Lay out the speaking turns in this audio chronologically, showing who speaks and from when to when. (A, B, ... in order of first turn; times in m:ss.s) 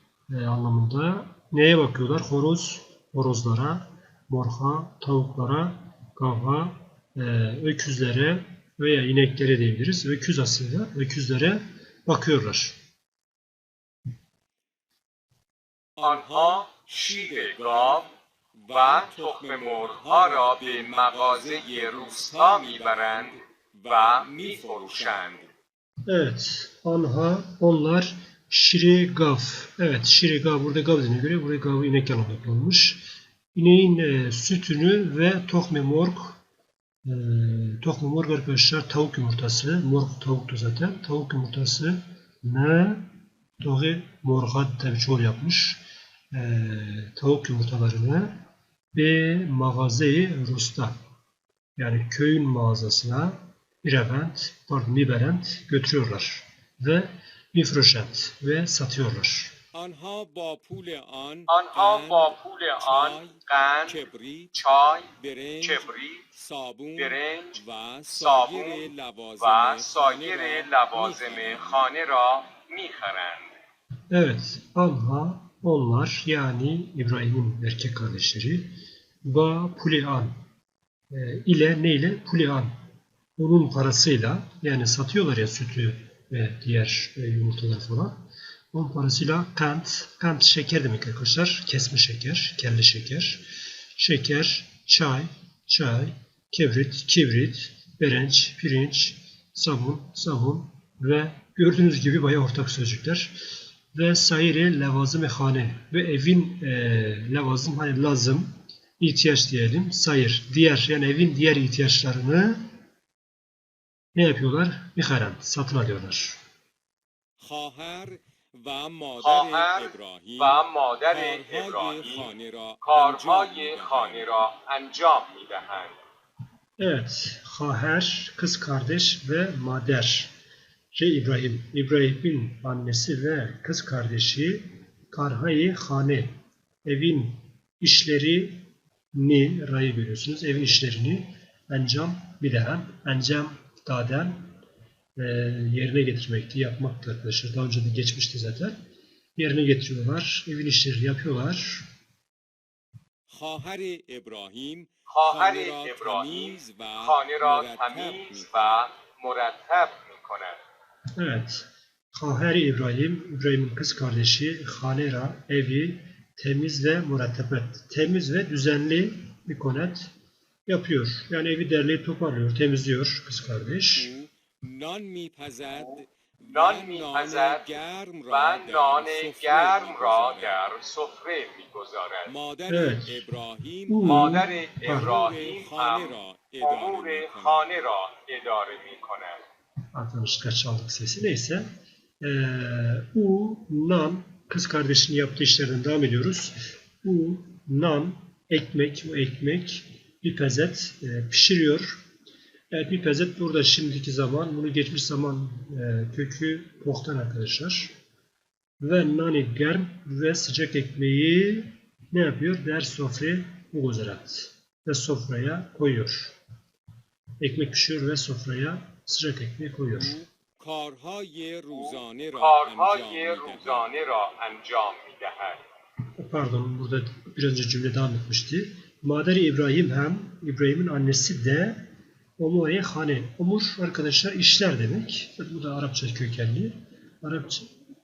0:00.3-0:12.8 A
0:16.0-0:18.0 B
0:16.0-0:18.1 C
0:18.6-0:25.5 B
0:18.7-0:25.4 C
0:26.1-0:33.0 A
0:33.5-0:36.4 A
0:37.0-0:43.0 A
0:43.6-0:45.8 A
0:46.3-0:48.4 A
0:48.9-0:50.9 A
0:51.8-0:59.6 A
0:59.7-1:04.6 B
1:01.5-1:04.0 C
1:04.5-1:05.1 C
1:05.1-1:11.8 B
1:05.6-1:06.2 C
1:07.0-1:13.5 C
1:14.1-1:18.7 A
1:19.2-1:20.4 A
1:21.1-1:22.7 A
1:23.4-1:28.2 A
1:28.7-1:43.4 A
1:43.9-1:52.6 A
1:54.1-1:56.4 A
1:57.4-2:04.2 B
1:59.2-2:02.3 C
2:02.8-2:06.0 C
2:06.8-2:10.3 A
2:10.9-2:16.3 A
2:16.8-2:24.5 A
2:25.2-2:28.8 A
2:29.4-2:31.9 A
2:33.3-2:38.8 B
2:35.1-2:40.6 C
2:41.2-2:50.1 A
2:50.7-2:54.1 A
2:54.0-3:00.6 B
2:56.4-2:57.7 C
2:58.3-3:02.3 C
3:02.3-3:07.6 B
3:02.7-3:03.2 A
3:03.9-3:05.1 A
3:04.0-3:09.4 C
3:09.9-3:11.7 A
3:12.2-3:22.0 A
3:22.7-3:27.9 A
3:28.8-3:36.4 A
3:37.4-3:40.2 A
3:40.0-3:43.8 B
3:41.7-3:45.6 C
3:46.2-3:51.9 A
3:52.4-3:57.7 A